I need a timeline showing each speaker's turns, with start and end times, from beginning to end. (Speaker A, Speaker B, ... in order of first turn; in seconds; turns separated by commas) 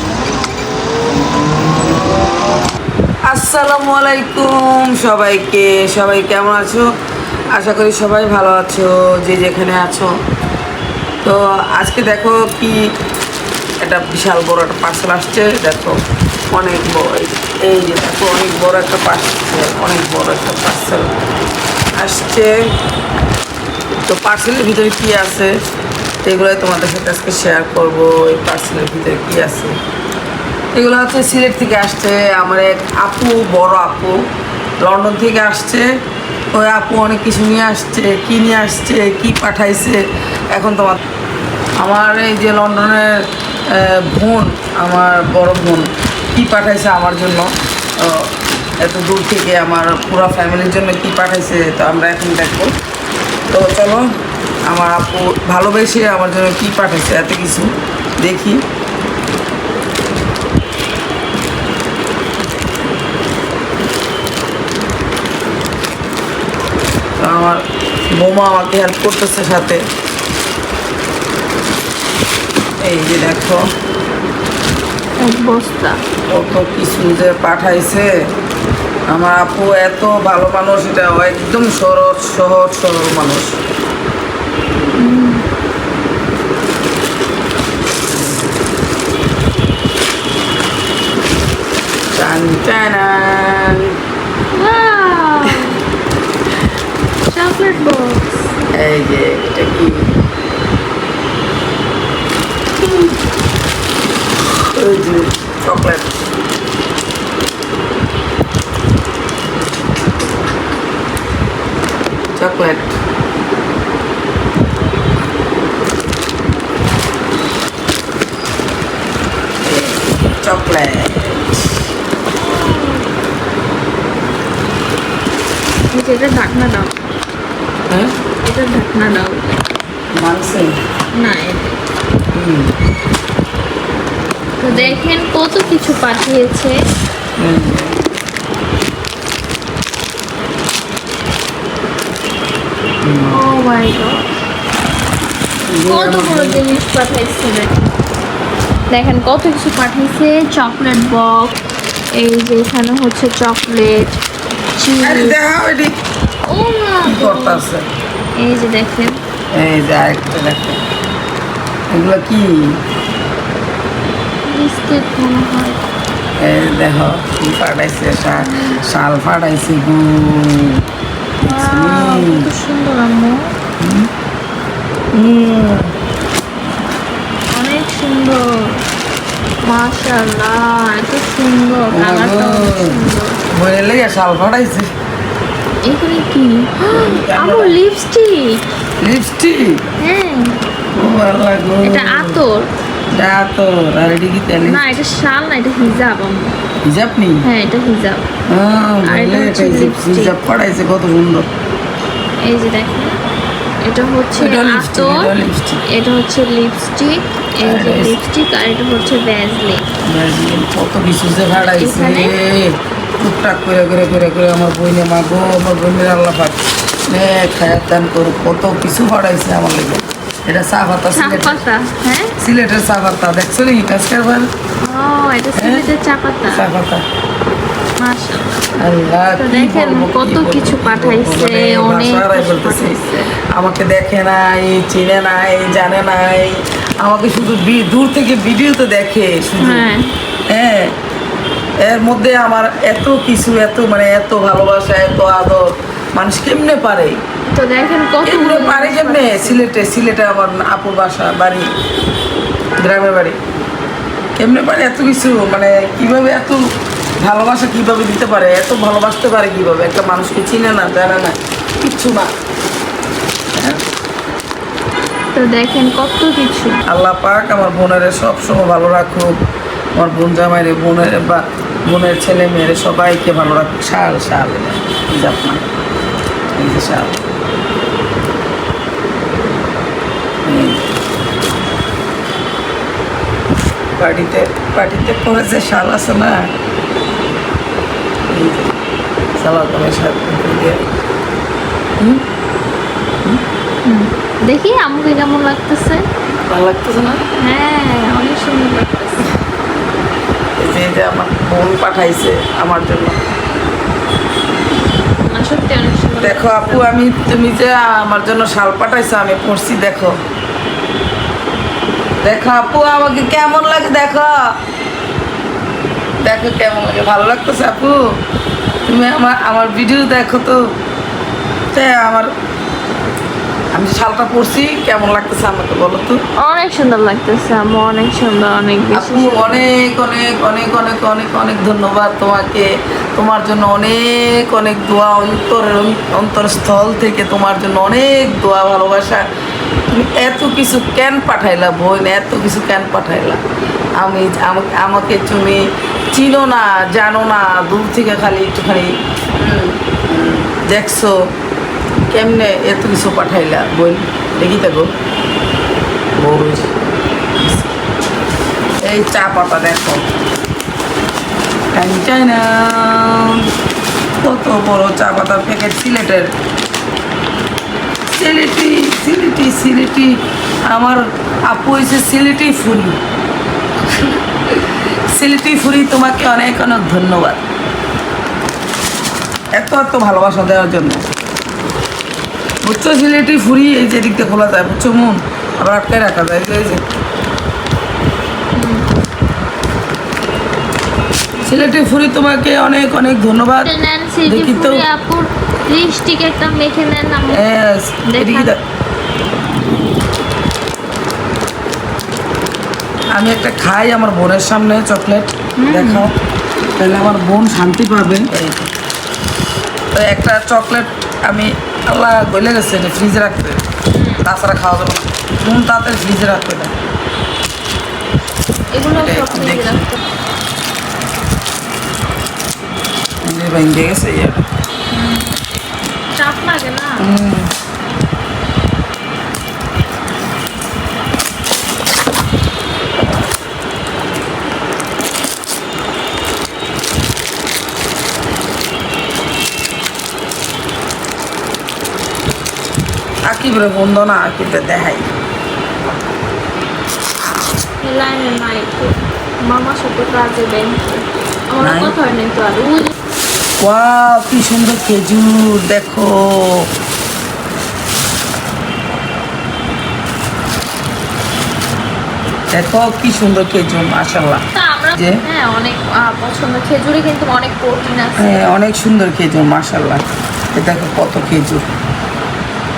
Speaker A: 3.3-6.9, Speaker A: 7.5-10.1, Speaker A: 11.2-12.9, Speaker A: 13.8-16.0, Speaker A: 16.5-21.1, Speaker A: 22.0-22.6, Speaker A: 24.1-25.5, Speaker A: 26.2-29.8, Speaker A: 30.7-34.2, Speaker A: 34.8-35.9, Speaker A: 36.5-40.0, Speaker A: 40.5-41.0, Speaker A: 41.8-43.1, Speaker A: 43.7-48.3, Speaker A: 48.8-52.7, Speaker A: 53.5-54.1, Speaker A: 54.7-58.6, Speaker A: 67.2-69.8, Speaker A: 72.8-73.6, Speaker B: 75.2-76.0, Speaker A: 76.3-78.1, Speaker A: 79.1-83.5, Speaker B: 84.9-85.4, Speaker A: 92.2-93.9, Speaker B: 94.5-95.8, Speaker B: 97.3-98.5, Speaker A: 98.7-100.1, Speaker A: 102.8-103.2, Speaker A: 104.7-106.1, Speaker A: 112.3-113.0, Speaker A: 119.6-121.9, Speaker B: 122.3-123.1, Speaker B: 125.9-127.1, Speaker B: 128.4-129.7, Speaker A: 130.2-130.7, Speaker B: 131.2-131.8, Speaker A: 132.3-132.7, Speaker B: 134.6-136.8, Speaker A: 134.7-135.0, Speaker A: 137.4-138.0, Speaker A: 143.1-143.4, Speaker B: 143.3-144.3, Speaker A: 145.7-146.7, Speaker B: 145.9-147.8, Speaker B: 148.9-151.6, Speaker B: 152.2-154.2, Speaker B: 154.8-155.4, Speaker A: 155.0-155.9, Speaker B: 156.5-157.6, Speaker A: 157.1-157.9, Speaker B: 158.4-159.2, Speaker A: 159.5-160.8, Speaker A: 161.9-162.8, Speaker B: 164.5-165.8, Speaker A: 166.4-170.8, Speaker B: 168.4-168.8, Speaker B: 171.4-173.5, Speaker A: 171.5-172.5, Speaker A: 173.8-174.1, Speaker A: 175.1-175.9, Speaker B: 177.5-178.8, Speaker B: 179.7-183.4, Speaker A: 181.9-182.9, Speaker A: 183.5-184.9, Speaker B: 185.8-188.6, Speaker A: 186.9-187.8, Speaker A: 189.0-189.8, Speaker B: 190.0-190.6, Speaker A: 190.9-192.4, Speaker B: 191.9-192.7, Speaker A: 193.1-194.8, Speaker B: 194.7-196.6, Speaker A: 196.8-197.4, Speaker B: 197.4-198.3, Speaker A: 198.5-201.5, Speaker B: 199.1-200.4, Speaker B: 202.4-203.2, Speaker B: 203.8-205.3, Speaker A: 204.4-205.8, Speaker B: 205.9-209.9, Speaker A: 207.6-208.2, Speaker A: 210.1-221.6, Speaker B: 211.5-212.4, Speaker B: 221.1-222.3, Speaker A: 222.4-224.5, Speaker B: 224.8-226.7, Speaker A: 225.6-225.9, Speaker A: 226.5-227.1, Speaker B: 228.0-228.7, Speaker A: 228.8-239.9, Speaker B: 229.4-233.3, Speaker B: 239.6-240.1, Speaker A: 240.5-240.9, Speaker A: 241.8-247.2, Speaker B: 247.5-249.7, Speaker A: 248.2-251.7, Speaker A: 252.8-253.4, Speaker A: 254.4-256.7, Speaker A: 257.2-262.3, Speaker A: 263.6-263.8, Speaker B: 265.3-266.8, Speaker A: 266.9-269.4, Speaker A: 270.0-275.6, Speaker A: 276.6-277.2, Speaker A: 280.5-280.9, Speaker A: 284.0-286.5, Speaker A: 288.3-288.7, Speaker A: 289.4-290.8, Speaker B: 293.9-296.1, Speaker A: 296.5-297.2, Speaker B: 297.4-299.3, Speaker A: 300.6-303.2, Speaker B: 305.2-306.9, Speaker A: 306.2-310.2, Speaker A: 312.2-314.5, Speaker A: 316.2-318.0, Speaker A: 318.9-320.6, Speaker A: 321.7-322.3, Speaker A: 323.7-326.2, Speaker B: 326.4-329.6, Speaker A: 328.9-339.2, Speaker A: 339.9-343.4, Speaker A: 344.0-351.2, Speaker A: 352.1-354.9, Speaker A: 356.2-356.7, Speaker A: 357.4-357.7, Speaker A: 358.8-360.1, Speaker A: 361.7-363.4, Speaker A: 364.2-366.3, Speaker A: 368.1-373.0, Speaker A: 374.0-377.4, Speaker A: 379.5-381.1, Speaker A: 382.6-386.8, Speaker B: 388.6-388.9, Speaker A: 391.5-393.7, Speaker B: 393.6-397.4, Speaker A: 394.2-394.9, Speaker A: 397.3-398.6, Speaker B: 398.1-398.5, Speaker A: 403.1-406.2, Speaker B: 405.6-406.1, Speaker A: 406.8-408.7, Speaker A: 409.9-413.6, Speaker B: 413.9-414.2, Speaker A: 414.2-416.7, Speaker B: 418.8-420.0, Speaker A: 418.9-419.8, Speaker A: 423.2-424.5, Speaker B: 424.9-425.4, Speaker B: 426.2-427.0, Speaker A: 427.0-427.5, Speaker A: 443.3-445.1, Speaker B: 447.8-452.9, Speaker A: 451.6-451.9, Speaker A: 453.6-456.7, Speaker A: 462.5-464.4, Speaker B: 464.6-468.4, Speaker A: 465.0-465.2, Speaker A: 468.2-470.0, Speaker A: 470.5-471.7